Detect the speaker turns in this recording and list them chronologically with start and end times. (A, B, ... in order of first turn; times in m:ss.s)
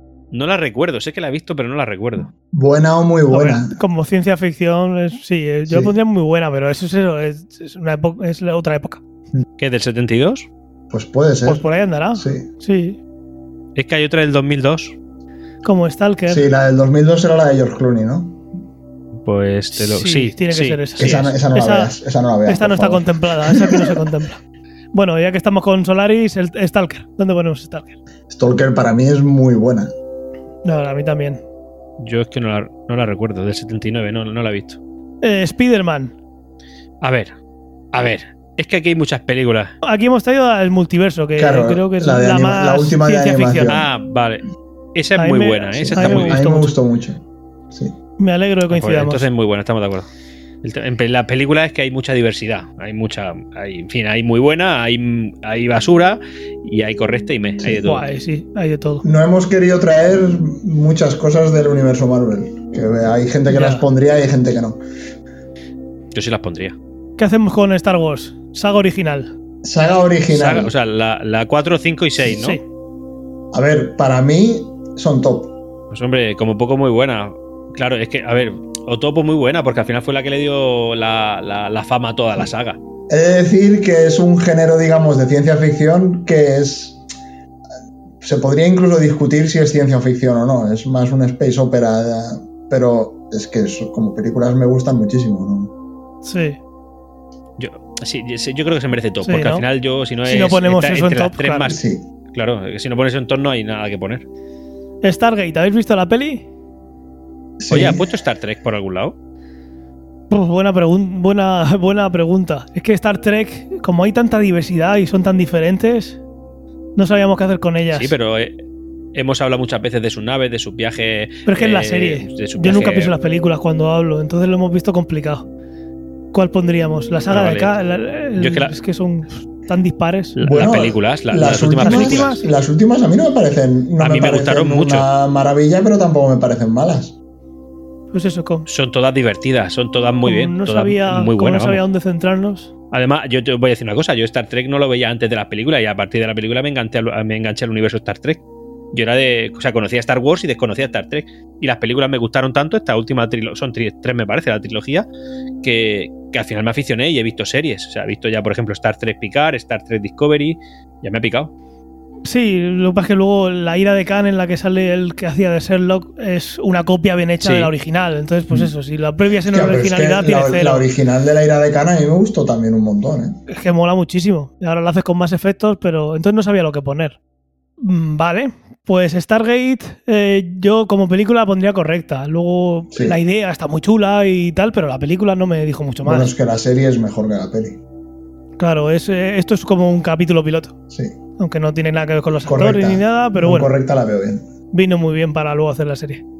0:00.3-0:02.3 A
0:02.5-0:03.8 B
0:03.3-0:09.0 C
0:05.7-0:05.9 B
0:09.6-0:10.5 A
0:10.9-0:11.6 B
0:11.4-0:13.0 C
0:12.2-0:12.5 B
0:13.8-0:14.9 A
0:15.6-0:16.4 C
0:16.3-0:18.4 B
0:19.2-0:21.3 A
0:19.7-0:21.9 C
0:21.0-0:23.8 B
0:22.5-0:24.4 C
0:24.9-0:28.0 C
0:28.3-0:29.9 B
0:30.6-0:31.4 C
0:32.0-0:34.8 A
0:35.2-0:36.1 C
0:37.0-0:37.3 A
0:37.9-0:39.7 A
0:39.8-0:43.7 C
0:41.4-0:43.9 B
0:43.7-0:44.4 A
0:44.9-0:46.4 A
0:45.2-0:46.7 C
0:45.7-0:48.0 B
0:48.2-0:49.2 C
0:48.7-0:50.1 A
0:50.6-0:58.0 A
0:57.8-0:59.0 C
0:59.0-1:04.8 B
1:03.5-1:03.8 C
1:06.1-1:06.8 A
1:07.2-1:09.3 C
1:09.6-1:10.7 B
1:10.3-1:12.6 A
1:12.3-1:12.6 C
1:13.5-1:15.5 B
1:15.9-1:22.8 A
1:23.1-1:27.0 B
1:28.2-1:35.7 B
1:36.2-1:36.6 C
1:37.6-1:41.8 A
1:39.2-1:39.6 C
1:40.2-1:41.7 C
1:41.6-1:42.0 B
1:42.3-1:44.2 A
1:45.0-1:46.4 C
1:47.6-1:48.0 B
1:47.7-1:49.1 A
1:50.3-1:56.2 C
1:57.0-1:58.1 C
1:57.9-1:58.6 A
1:59.1-2:03.1 A
2:01.5-2:05.4 C
2:06.3-2:10.4 C
2:07.3-2:07.7 A
2:08.4-2:08.7 A
2:10.4-2:12.4 A
2:10.4-2:17.1 B
2:11.8-2:12.5 C
2:14.0-2:15.1 A
2:18.1-2:18.7 C
2:18.7-2:21.8 A
2:20.2-2:22.7 C
2:22.9-2:28.4 A
2:28.9-2:35.1 A
2:35.6-2:41.5 A
2:42.2-2:50.8 C
2:47.4-2:47.7 A
2:49.5-2:53.4 B
2:53.5-2:57.2 C
2:57.8-3:06.3 C
3:02.9-3:03.2 B
3:06.0-3:07.8 B
3:08.6-3:10.7 C
3:10.9-3:11.2 B
3:11.4-3:13.7 C
3:12.4-3:14.5 B
3:14.7-3:16.2 C